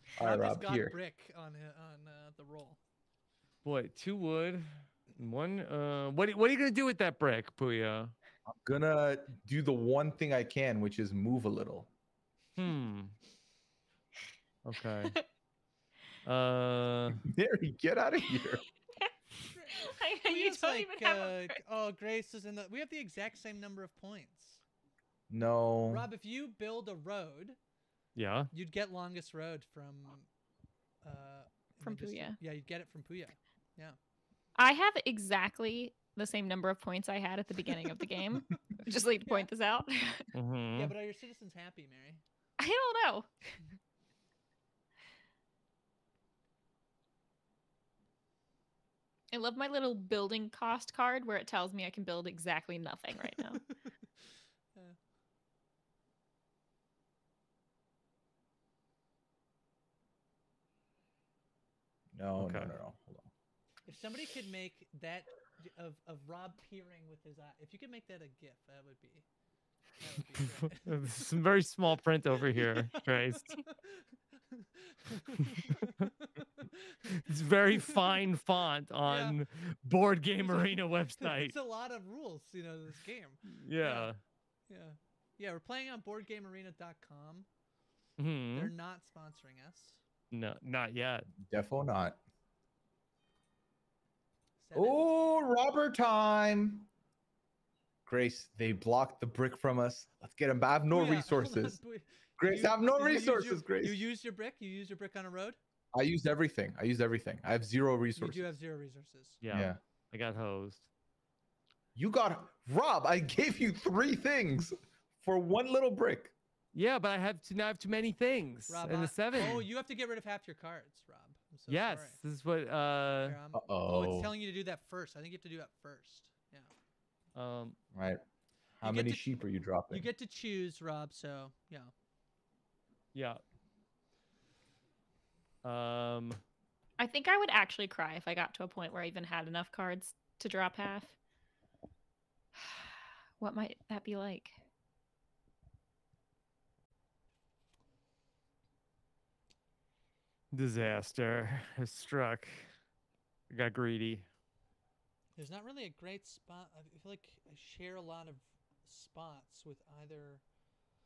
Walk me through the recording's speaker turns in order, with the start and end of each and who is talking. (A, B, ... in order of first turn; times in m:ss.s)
0:00.2-0:01.0 A
0:00.2-0:02.8 B
0:03.6-0:08.1 C
0:08.5-0:11.9 A
0:12.6-0:13.1 C
0:14.6-0:15.2 C
0:16.2-0:17.2 C
0:17.2-0:18.6 A
0:18.4-0:19.1 D
0:19.5-0:24.6 B
0:19.7-0:21.6 D
0:25.3-0:26.1 A
0:25.9-0:27.6 B
0:28.2-0:28.5 C
0:28.5-0:30.3 B
0:31.0-0:34.0 B
0:31.8-0:32.4 D
0:34.6-0:40.3 D
0:40.3-0:40.9 C
0:40.8-0:42.2 B
0:42.6-0:43.3 D
0:49.3-0:53.6 D
0:53.7-0:55.0 B
1:02.1-1:03.3 A
1:02.4-1:02.7 C
1:03.9-1:09.3 B
1:10.0-1:11.2 B
1:10.6-1:13.6 C
1:12.5-1:17.3 B
1:17.1-1:21.6 C
1:19.1-1:19.4 B
1:20.5-1:24.1 B
1:23.5-1:24.2 C
1:24.7-1:27.5 B
1:28.2-1:28.7 C
1:28.5-1:30.0 B
1:30.3-1:31.3 C
1:31.4-1:32.2 A
1:34.6-1:35.1 B
1:34.7-1:36.9 A
1:38.1-1:41.8 A
1:40.9-1:45.6 B
1:42.4-1:44.0 A
1:45.9-1:48.5 A
1:48.2-1:49.4 B
1:49.4-1:50.9 C
1:49.5-1:49.8 A
1:52.0-1:56.3 A
1:56.7-1:59.7 C
1:58.7-2:02.2 B
2:01.7-2:03.4 C
2:03.2-2:06.7 B
2:03.5-2:04.3 A
2:07.4-2:07.8 C
2:07.9-2:08.2 A
2:08.8-2:09.3 B
2:08.8-2:10.1 A
2:09.9-2:11.9 B
2:13.1-2:13.4 C
2:15.6-2:16.4 C
2:17.0-2:21.2 D
2:22.6-2:24.6 D
2:30.5-2:32.7 C
2:33.5-2:34.3 C
2:35.4-2:40.4 B